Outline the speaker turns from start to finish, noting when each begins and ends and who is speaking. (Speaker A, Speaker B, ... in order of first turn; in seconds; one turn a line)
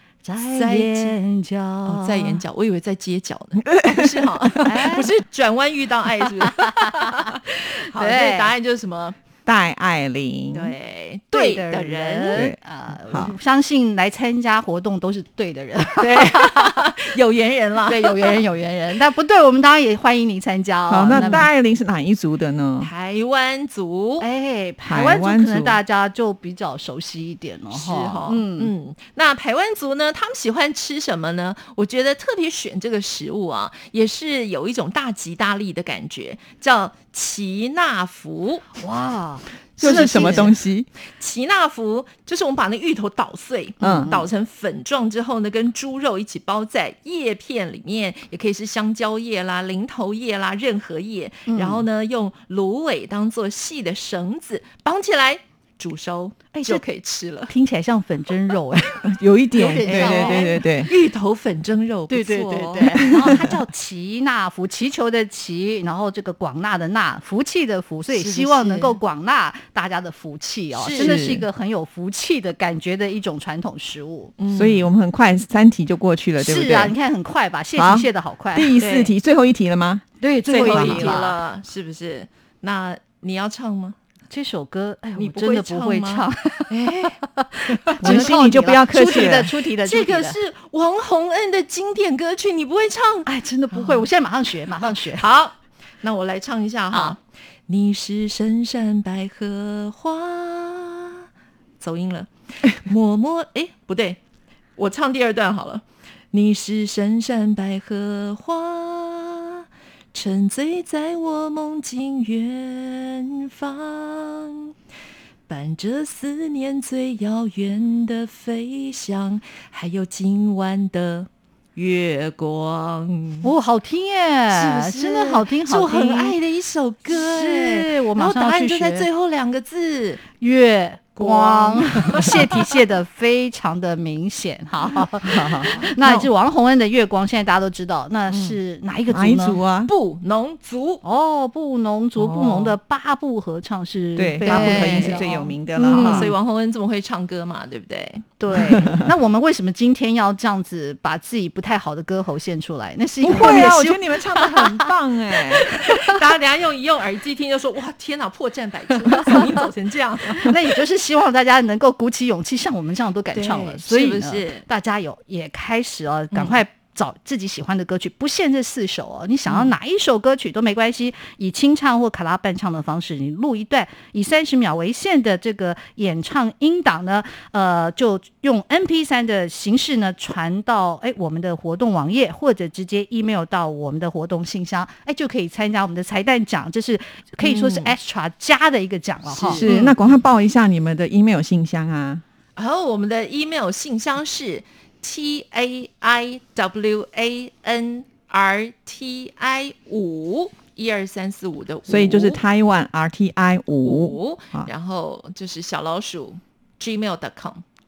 Speaker A: 0.2-2.4
Speaker B: 0.4-1.2
Speaker B: 1.8-9.2
Speaker C: 3.6-4.7
Speaker A: 4.6-5.1
Speaker A: 6.4-6.7
Speaker A: 7.9-8.5
Speaker C: 9.4-10.7
Speaker B: 10.5-12.5
Speaker A: 11.3-16.9
Speaker C: 12.3-13.3
Speaker B: 16.0-18.4
Speaker A: 17.9-21.5
Speaker C: 20.9-22.9
Speaker B: 21.1-21.5
Speaker B: 22.8-24.2
Speaker A: 24.2-28.7
Speaker C: 24.8-25.8
Speaker B: 27.7-38.7
Speaker A: 38.8-40.5
Speaker B: 39.8-40.6
Speaker C: 39.8-40.9
Speaker B: 41.2-57.5
Speaker C: 43.8-44.1
Speaker A: 43.8-44.2
Speaker A: 51.5-51.9
Speaker A: 56.5-56.8
Speaker A: 57.5-60.6
Speaker C: 59.0-60.9
Speaker B: 59.8-63.4
Speaker A: 62.1-74.3
Speaker C: 62.9-63.5
Speaker B: 68.1-69.0
Speaker B: 70.7-71.4
Speaker C: 71.0-71.5
Speaker B: 74.4-74.9
Speaker C: 74.5-77.0
Speaker A: 76.4-78.8
Speaker C: 77.8-80.0
Speaker B: 78.8-79.1
Speaker A: 80.2-81.4
Speaker B: 80.5-84.0
Speaker C: 80.7-81.2
Speaker A: 84.3-90.4
Speaker B: 85.2-87.2
Speaker B: 87.7-88.3
Speaker C: 88.0-89.5
Speaker B: 89.0-94.1
Speaker A: 93.2-95.2
Speaker B: 94.7-101.2
Speaker B: 101.8-104.2
Speaker B: 104.8-114.7
Speaker B: 115.5-123.5
Speaker A: 123.4-126.4
Speaker B: 124.5-130.2
Speaker A: 127.1-129.1
Speaker A: 130.4-139.6
Speaker B: 131.2-132.8
Speaker C: 135.0-136.3
Speaker C: 139.1-139.9
Speaker B: 139.8-141.0
Speaker A: 141.0-146.3
Speaker C: 142.2-142.8
Speaker C: 144.2-146.3
Speaker B: 144.4-148.3
Speaker A: 148.4-154.9
Speaker C: 148.5-149.1
Speaker C: 153.2-155.7
Speaker B: 153.3-153.7
Speaker A: 155.5-156.2
Speaker B: 155.6-160.5
Speaker A: 160.4-189.8
Speaker B: 163.3-164.7
Speaker B: 166.3-166.6
Speaker B: 169.5-169.7
Speaker B: 187.4-187.9
Speaker B: 189.2-190.2
Speaker C: 189.6-192.2
Speaker B: 192.6-202.4
Speaker C: 201.9-204.7
Speaker B: 203.8-207.6